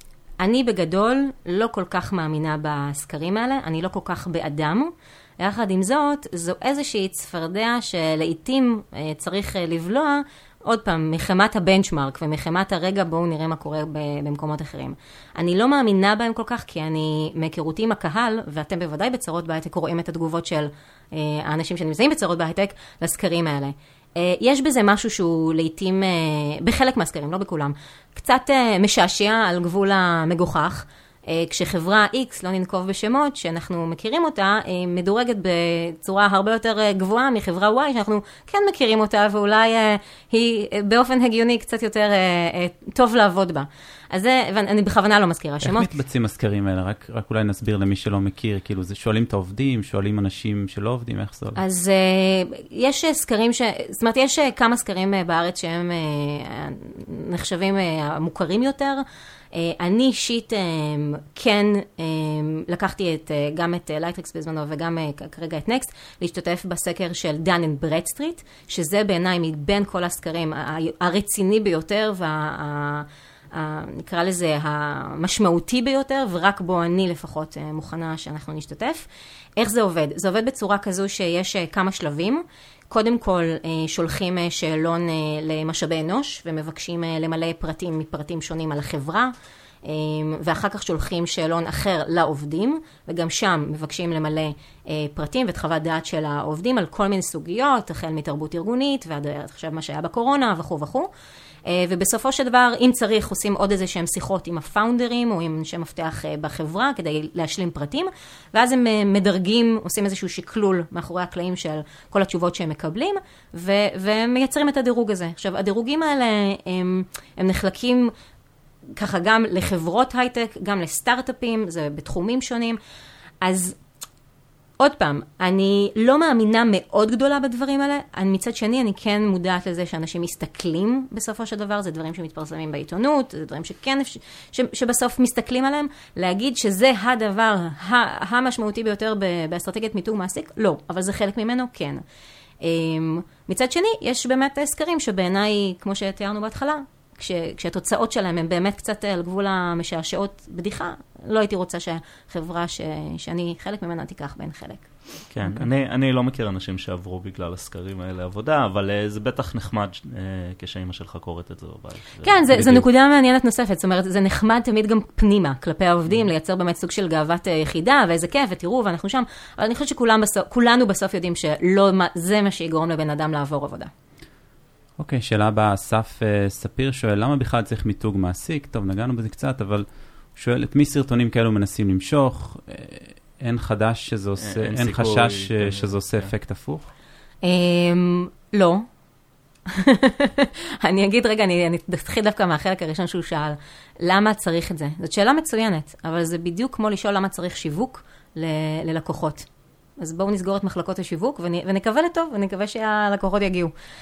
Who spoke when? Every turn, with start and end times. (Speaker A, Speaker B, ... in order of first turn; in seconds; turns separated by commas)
Speaker A: 0.4-45.9, Speaker B: 45.6-51.6, Speaker A: 51.5-89.3, Speaker A: 89.8-101.1, Speaker A: 101.7-118.1, Speaker A: 118.9-122.8, Speaker A: 123.4-123.8, Speaker A: 124.8-142.0, Speaker A: 142.6-154.9, Speaker C: 155.3-162.8, Speaker A: 162.2-173.9, Speaker B: 175.0-186.9, Speaker C: 184.4-186.3, Speaker A: 187.4-188.8, Speaker A: 189.7-199.5, Speaker A: 200.0-203.7